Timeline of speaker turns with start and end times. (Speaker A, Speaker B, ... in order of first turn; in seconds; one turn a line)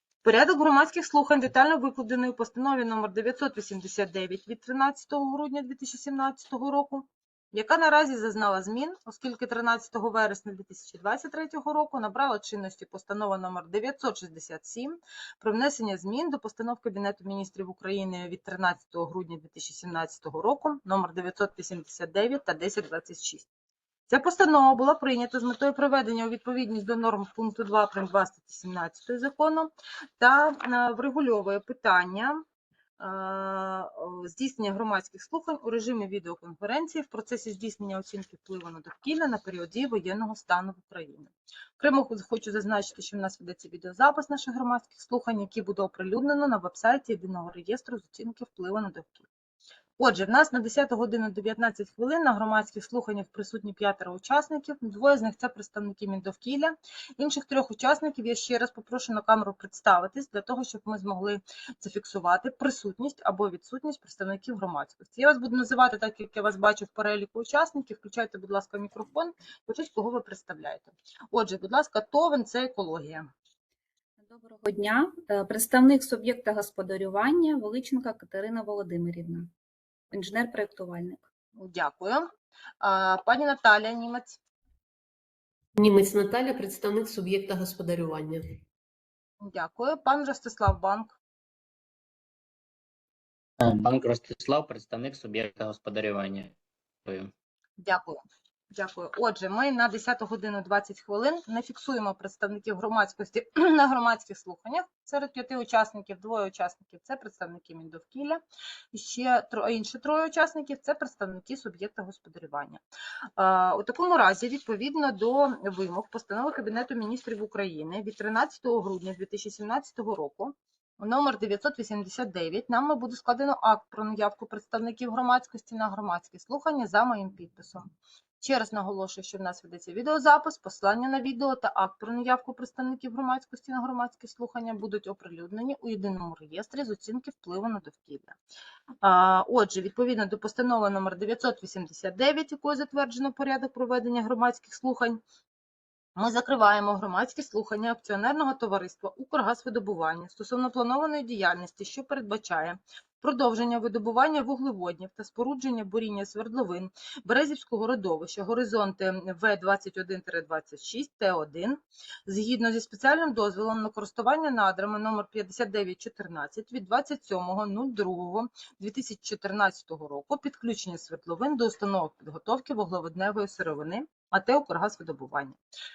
Speaker A: 0.2-23.5
Speaker A: 24.1-32.4
Speaker A: 33.0-49.3
Speaker A: 50.0-73.3
Speaker B: 74.2-79.5
Speaker B: 80.1-81.3
Speaker A: 81.6-82.3
Speaker A: 82.8-84.4
Speaker C: 85.8-88.6
Speaker A: 89.4-91.2
Speaker D: 93.6-97.3
Speaker A: 97.8-98.2
Speaker A: 98.7-108.4
Speaker A: 108.9-112.8
Speaker A: 113.4-127.9
Speaker A: 128.4-138.4
Speaker A: 139.0-145.2
Speaker A: 146.2-175.6